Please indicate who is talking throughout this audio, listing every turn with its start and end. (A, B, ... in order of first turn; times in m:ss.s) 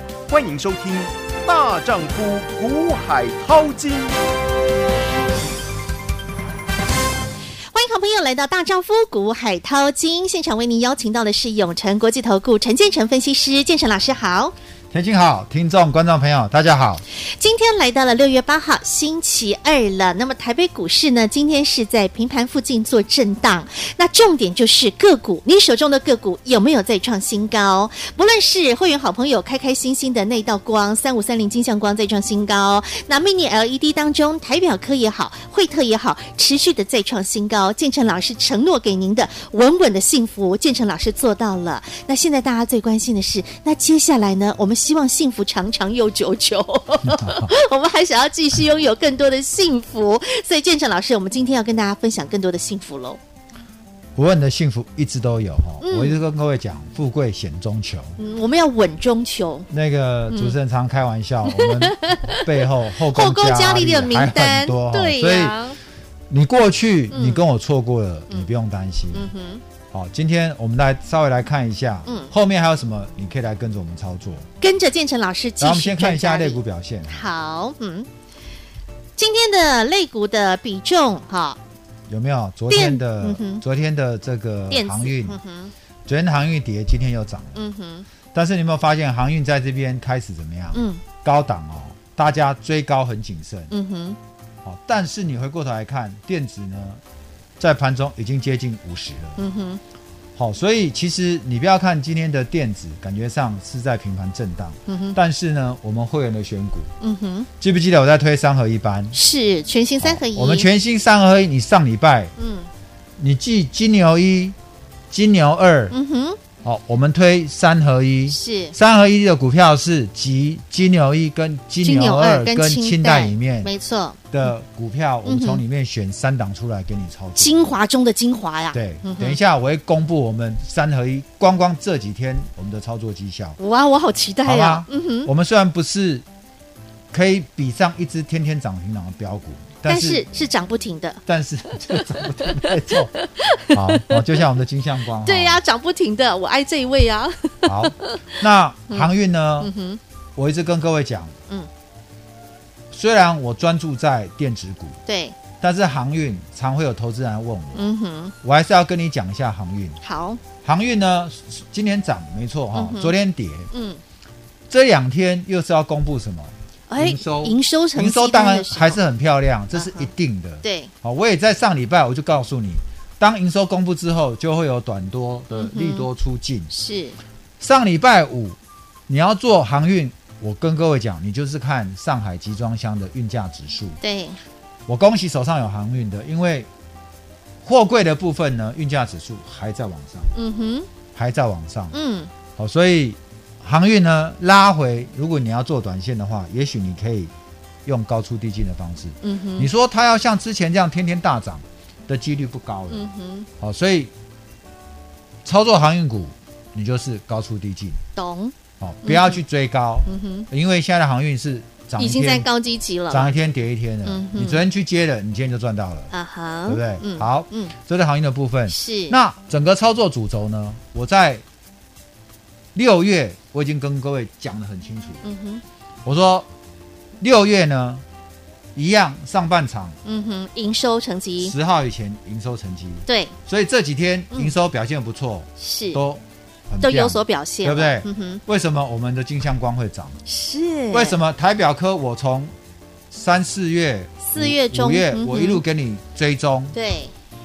0:00.3-0:04.2 A
0:07.7-0:14.5 B
0:14.9-0:17.0 C
0:17.4-0:53.2 B
0:47.0-0:47.5 C
0:54.2-0:58.2 C
0:55.8-0:56.2 B
0:58.2-0:59.7 B
0:59.7-1:05.6 C
1:00.3-1:00.6 B
1:01.4-1:05.8 B
1:06.3-1:09.3 C
1:07.1-1:07.4 B
1:09.1-1:09.6 B
1:09.9-1:14.5 C
1:12.0-1:12.3 B
1:14.6-1:18.1 B
1:15.6-1:17.3 C
1:19.2-1:21.6 B
1:22.1-1:25.4 C
1:22.7-1:23.6 B
1:24.7-1:25.7 B
1:26.0-1:27.6 C
1:27.5-1:28.0 B
1:28.3-1:33.7 C
1:30.7-1:31.0 B
1:33.7-1:34.2 B
1:34.6-1:37.0 C
1:37.6-1:39.4 C
1:39.4-1:39.8 B
1:40.4-1:46.9 C
1:44.9-1:45.2 B
1:47.0-1:47.5 B
1:47.6-1:49.1 C
1:49.1-1:50.7 B
1:50.0-1:52.3 C
1:52.4-1:52.7 B
1:53.2-1:54.6 C
1:55.1-1:55.9 C
1:55.9-1:56.4 B
1:56.6-2:03.7 C
1:58.3-1:58.7 B
2:01.8-2:04.2 B
2:04.3-2:07.7 C
2:05.2-2:05.6 B
2:07.4-2:09.4 B
2:08.7-2:13.6 C
2:13.6-2:15.3 B
2:14.4-2:16.2 C
2:17.1-2:20.4 C
2:19.8-2:24.4 B
2:21.2-2:23.1 C
2:23.7-2:25.6 C
2:25.2-2:29.1 B
2:27.6-2:29.7 C
2:29.6-2:30.0 B
2:30.4-2:31.3 C
2:32.9-2:35.0 C
2:35.0-2:35.4 B
2:35.6-2:37.8 C
2:37.7-2:38.3 B
2:38.4-2:40.0 C
2:40.0-2:40.4 B
2:40.6-2:43.7 C
2:42.7-2:43.1 B
2:43.7-2:44.0 B
2:44.7-2:56.7 C
2:46.9-2:49.0 B
2:49.7-2:50.1 B
2:50.6-2:50.9 B
2:55.5-2:56.1 B
2:56.7-2:57.2 B
2:57.6-2:58.6 C
2:59.1-3:04.0 C
3:04.0-3:04.4 B
3:04.9-3:06.7 C
3:07.6-3:10.3 C
3:10.3-3:10.9 B
3:11.1-3:11.9 C
3:11.9-3:12.3 B
3:12.6-3:17.3 C
3:17.8-3:23.0 C
3:19.2-3:19.7 B
3:22.9-3:23.5 B
3:23.6-3:24.1 C
3:25.4-3:28.0 C
3:28.2-3:28.5 B
3:28.8-3:32.5 C
3:29.0-3:29.4 B
3:30.0-3:30.5 B
3:32.0-3:33.3 B
3:33.1-3:36.1 C
3:34.0-3:34.6 B
3:36.1-3:37.7 B
3:36.7-3:41.4 C
3:38.7-3:39.2 B
3:42.7-3:45.2 C
3:45.2-3:45.6 B
3:46.0-3:46.5 C
3:47.2-3:48.0 C
3:48.7-3:50.0 C
3:50.0-3:51.5 B
3:51.4-4:00.2 C
3:53.1-3:53.3 B
3:55.6-3:56.0 B
3:56.8-3:58.4 B
4:00.2-4:01.2 B
4:00.9-4:02.5 C
4:03.1-4:06.7 C
4:04.2-4:05.6 B
4:06.7-4:07.1 B